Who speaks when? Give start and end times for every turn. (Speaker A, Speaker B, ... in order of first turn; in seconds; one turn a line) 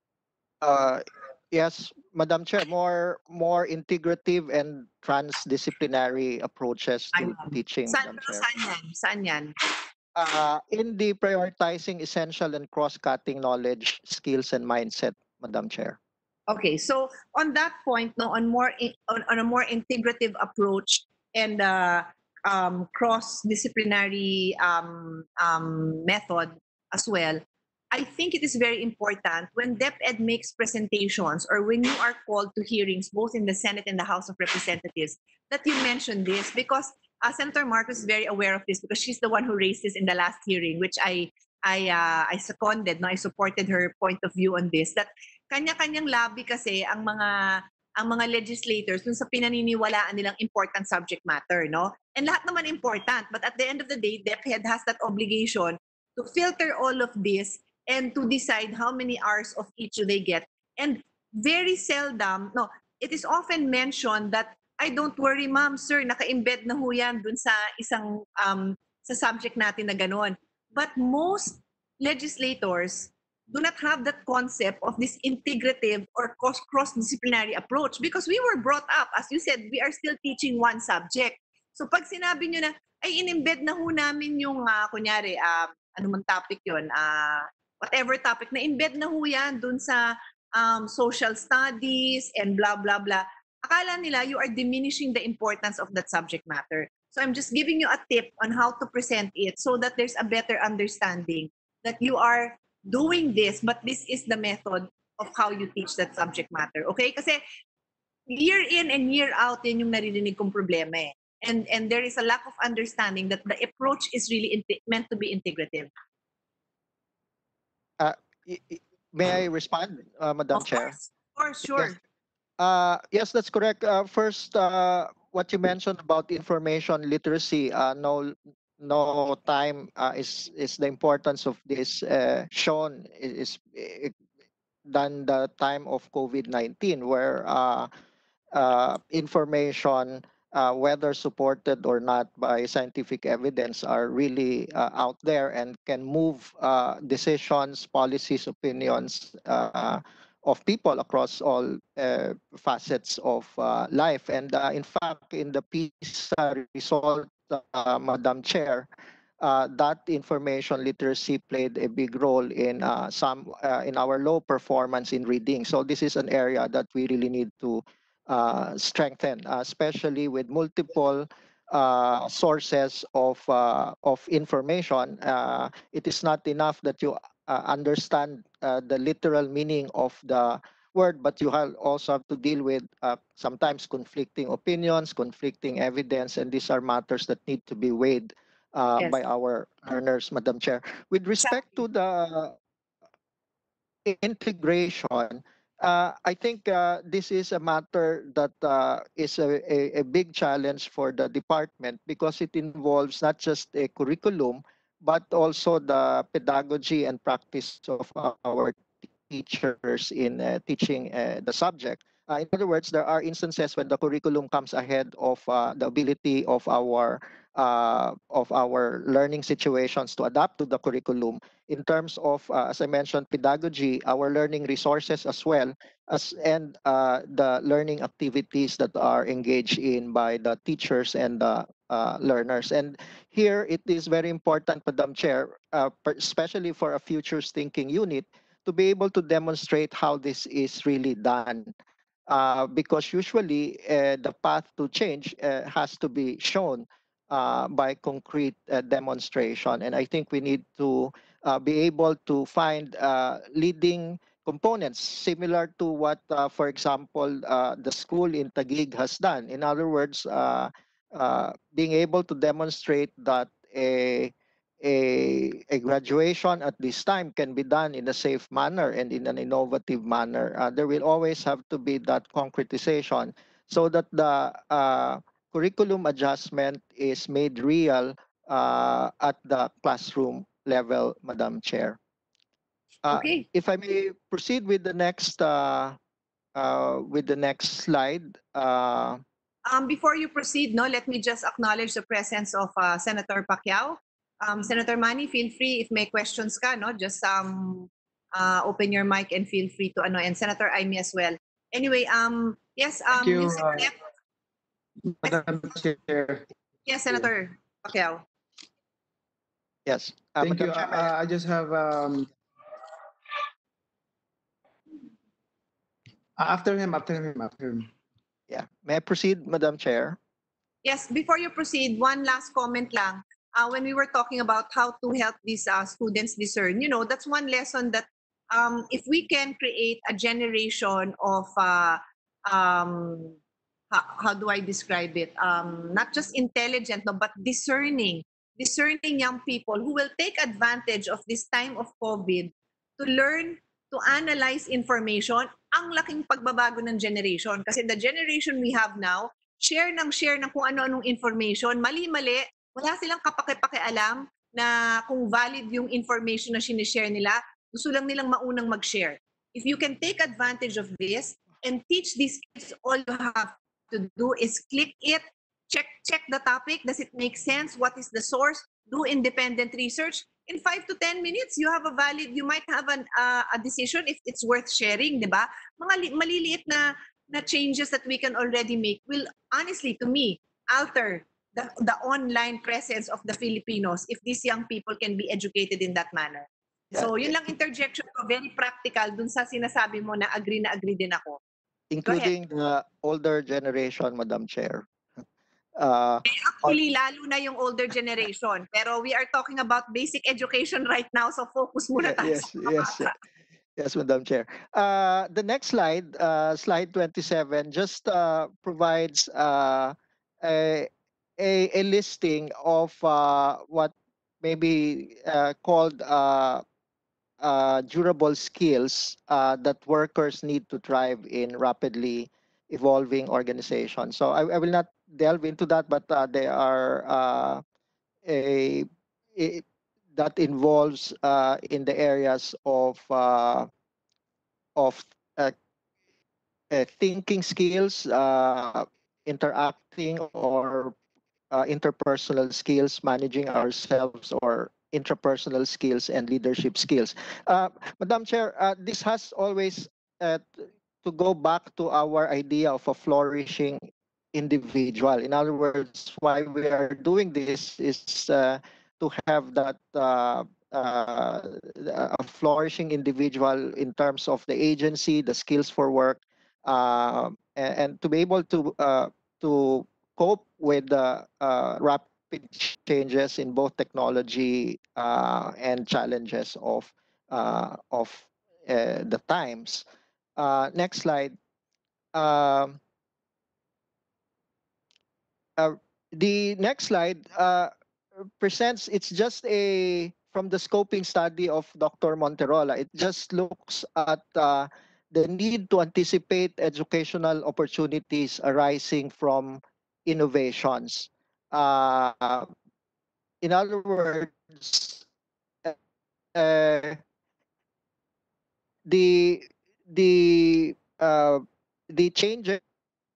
Speaker A: 0.6-8.5
Speaker B: 7.1-9.5
Speaker A: 10.2-16.0
Speaker B: 16.5-27.4
Speaker B: 27.9-107.4
Speaker B: 108.3-115.9
Speaker A: 118.0-121.0
Speaker B: 120.5-122.0
Speaker A: 122.6-134.2
Speaker A: 134.9-137.9
Speaker A: 138.5-192.6
Speaker A: 194.1-241.7
Speaker A: 242.3-282.0
Speaker A: 283.1-286.0
Speaker B: 283.1-283.4
Speaker A: 286.6-289.2
Speaker B: 289.7-303.9
Speaker C: 303.1-303.9
Speaker C: 305.0-306.4
Speaker B: 306.9-308.2
Speaker A: 309.9-311.1
Speaker C: 310.4-312.3
Speaker C: 316.4-317.9
Speaker A: 318.5-320.2
Speaker B: 320.8-333.4
Speaker B: 333.9-391.4
Speaker A: 386.9-387.3
Speaker A: 391.9-394.9
Speaker B: 392.1-392.3
Speaker A: 395.8-396.8
Speaker B: 396.3-403.1
Speaker A: 402.0-403.1
Speaker A: 403.8-416.6
Speaker A: 417.4-427.6
Speaker A: 428.2-433.7
Speaker A: 434.8-435.6
Speaker A: 436.7-441.0
Speaker A: 441.5-479.9
Speaker A: 480.4-481.4
Speaker A: 482.1-482.8
Speaker A: 485.6-502.5
Speaker A: 503.4-505.1
Speaker A: 506.3-507.0
Speaker A: 508.9-512.6